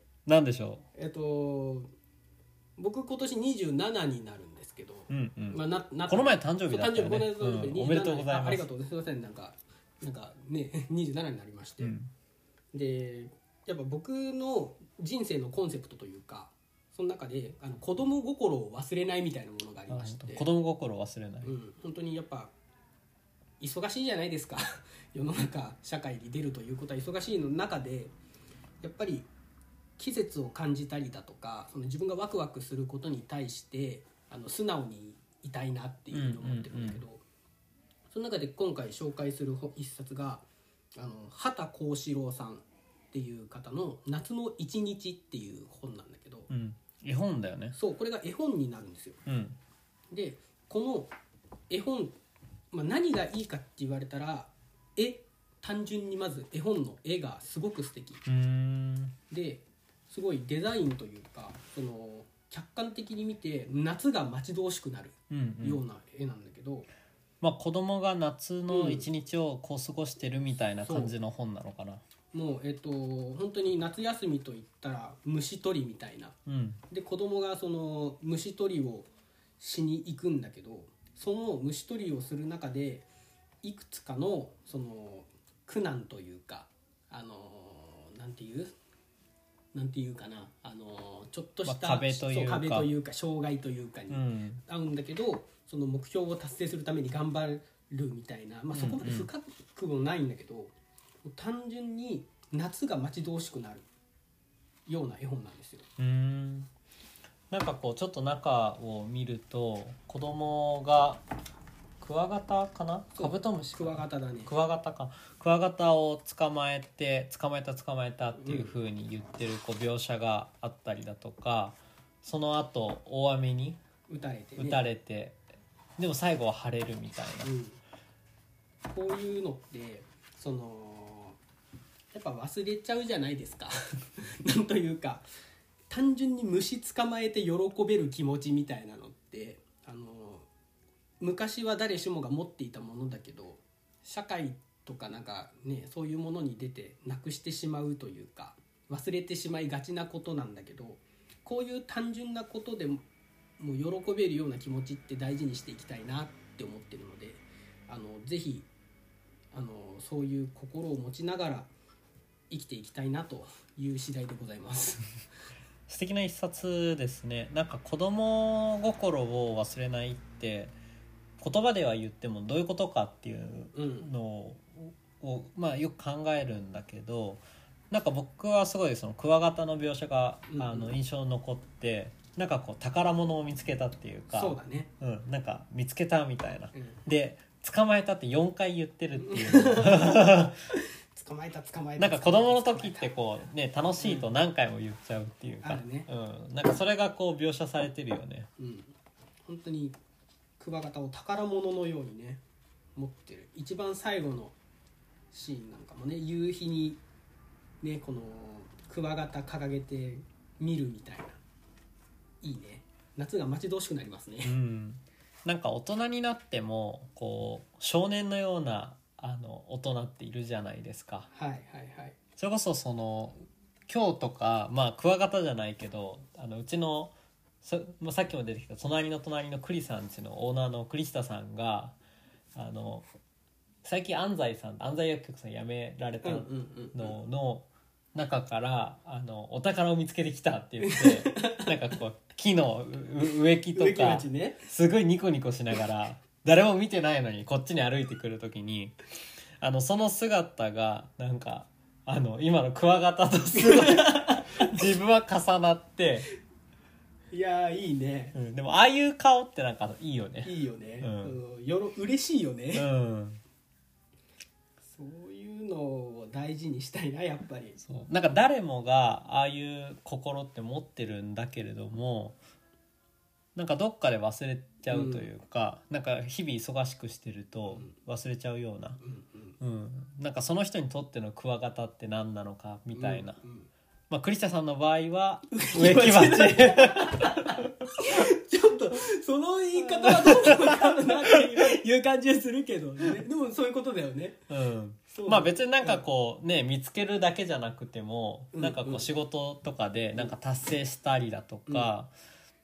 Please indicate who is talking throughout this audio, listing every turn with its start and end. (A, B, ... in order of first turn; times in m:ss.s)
0:00.3-0:00.8 A
0:00.9-0:01.9 B
0:02.8-0:12.0 B
0:05.1-0:08.7 A
0:11.8-0:12.1 A
0:12.7-0:20.5 B
0:19.9-0:21.5 A
0:21.4-0:22.5 B
0:23.6-0:28.2 B
0:28.8-0:29.3 B
0:30.0-0:37.2 B
0:36.1-0:37.0 A
0:38.1-0:46.5 B
0:46.5-0:47.8 A
0:47.8-0:49.2 B
0:49.3-0:49.6 A
0:50.1-0:51.1 B
0:51.7-0:52.1 B
0:52.7-0:58.2 B
0:58.3-0:59.2 A
0:59.3-1:06.9 B
1:05.3-1:05.8 A
1:07.4-1:12.0 A
1:08.7-1:09.1 B
1:10.8-1:11.2 B
1:12.3-1:16.4 B
1:16.5-1:16.8 A
1:16.9-1:23.1 B
1:23.6-1:28.7 B
1:29.7-1:43.9 B
1:31.6-1:32.9 A
1:34.1-1:34.6 A
1:38.7-1:39.3 A
1:44.9-1:45.9 B
1:46.0-1:46.7 A
1:47.5-1:51.2 A
1:52.0-2:03.8 A
1:53.2-1:54.5 B
1:58.4-1:58.8 B
2:04.1-2:04.8 B
2:04.6-2:05.4 A
2:06.0-2:07.5 A
2:07.4-2:07.8 B
2:08.9-2:11.4 B
2:12.1-2:15.2 B
2:15.9-2:20.5 B
2:21.2-2:33.0 B
2:33.6-2:38.7 B
2:39.5-2:41.7 B
2:42.5-2:45.1 B
2:45.9-2:50.8 A
2:51.4-3:10.6 A
2:53.7-2:54.1 B
3:00.5-3:01.0 B
3:04.3-3:04.9 B
3:06.7-3:07.0 B
3:09.2-3:13.1 B
3:12.0-3:18.5 A
3:14.0-3:14.3 B
3:15.6-3:16.1 B
3:18.6-3:18.9 B
3:19.5-3:20.0 B
3:20.6-3:22.4 B
3:23.0-3:24.6 B
3:25.3-3:27.0 B
3:27.8-3:31.4 B
3:32.4-3:34.6 B
3:34.4-3:41.3 A
3:41.3-3:42.2 B
3:42.4-3:52.0 A
3:52.6-3:53.1 A
3:53.8-4:09.0 A
3:56.2-3:57.2 B
4:00.8-4:01.7 B
4:03.8-4:04.7 B
4:09.6-4:16.3 A
4:13.6-4:14.8 B
4:17.3-4:18.4 B
4:18.3-4:21.4 A
4:20.4-4:22.9 B
4:22.7-4:23.4 A
4:24.9-4:27.8 B
4:27.8-4:32.4 A
4:33.6-4:39.0 A
4:34.9-4:35.3 B
4:39.0-4:39.6 B
4:39.6-4:43.4 A
4:42.9-4:43.7 B
4:44.1-4:47.6 A
4:45.5-4:54.4 B
4:49.8-4:50.9 A
4:54.5-5:02.1 A
4:55.1-4:56.1 B
4:58.5-4:59.1 B